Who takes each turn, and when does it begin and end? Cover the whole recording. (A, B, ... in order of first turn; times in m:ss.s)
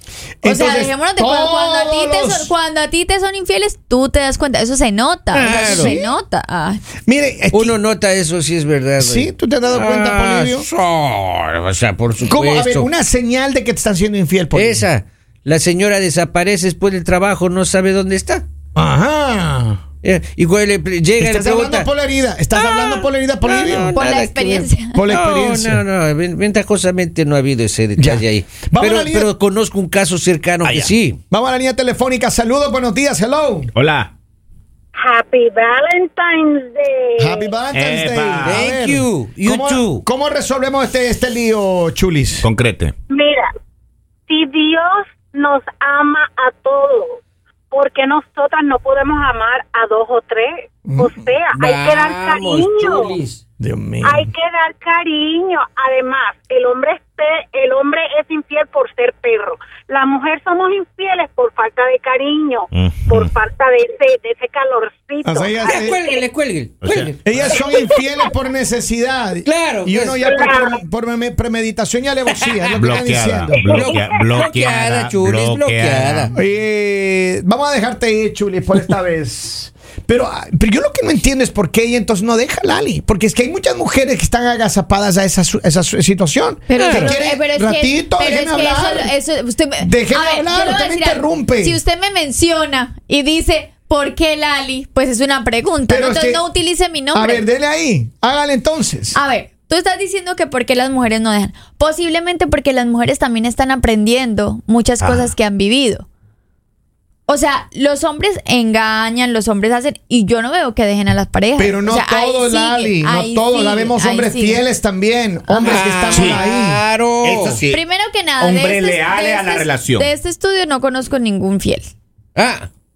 0:00.4-0:02.5 A
0:00.4-0:06.8 B
0:05.3-0:06.2 A
0:05.4-0:06.0 C
0:07.1-0:07.8 A
0:07.5-0:12.9 C
0:09.0-0:10.7 A
0:12.2-0:14.9 A
0:14.5-0:18.4 C
0:18.8-0:19.8 A
0:20.0-0:21.9 C
0:21.2-0:24.0 A
0:22.5-0:31.2 C
0:23.9-0:25.0 B
0:24.9-0:25.8 A
0:28.0-0:29.3 A
0:30.6-0:33.7 A
0:33.8-0:34.1 D
0:35.0-0:37.5 E
0:37.2-0:42.5 A
0:37.7-0:38.6 D
0:38.4-0:40.0 C
0:42.4-0:42.9 D
0:43.1-0:43.5 E
0:44.3-0:47.2 E
0:47.7-0:53.2 E
0:50.9-0:51.2 A
0:51.6-0:53.4 C
0:53.6-0:54.3 A
0:54.0-1:06.1 E
1:02.7-1:03.3 D
1:05.2-1:06.0 A
1:05.6-1:07.2 C
1:06.8-1:07.6 D
1:07.2-1:13.6 A
1:07.6-1:07.9 E
1:09.4-1:10.3 C
1:10.2-1:10.8 E
1:12.5-1:12.8 C
1:12.8-1:16.3 D
1:13.6-1:16.3 C
1:13.6-1:14.5 E
1:16.3-1:29.1 A
1:26.7-1:37.4 B
1:26.8-1:27.1 C
1:29.8-1:31.8 A
1:35.9-1:36.4 A
1:37.1-1:39.2 A
1:39.2-1:46.1 B
1:45.0-1:45.3 D
1:47.3-1:54.6 B
1:51.6-1:56.8 A
1:55.6-1:57.6 C
1:56.1-1:56.4 D
1:57.2-1:57.8 D
1:57.6-2:01.9 B
1:58.4-2:00.1 D
2:02.4-2:02.7 C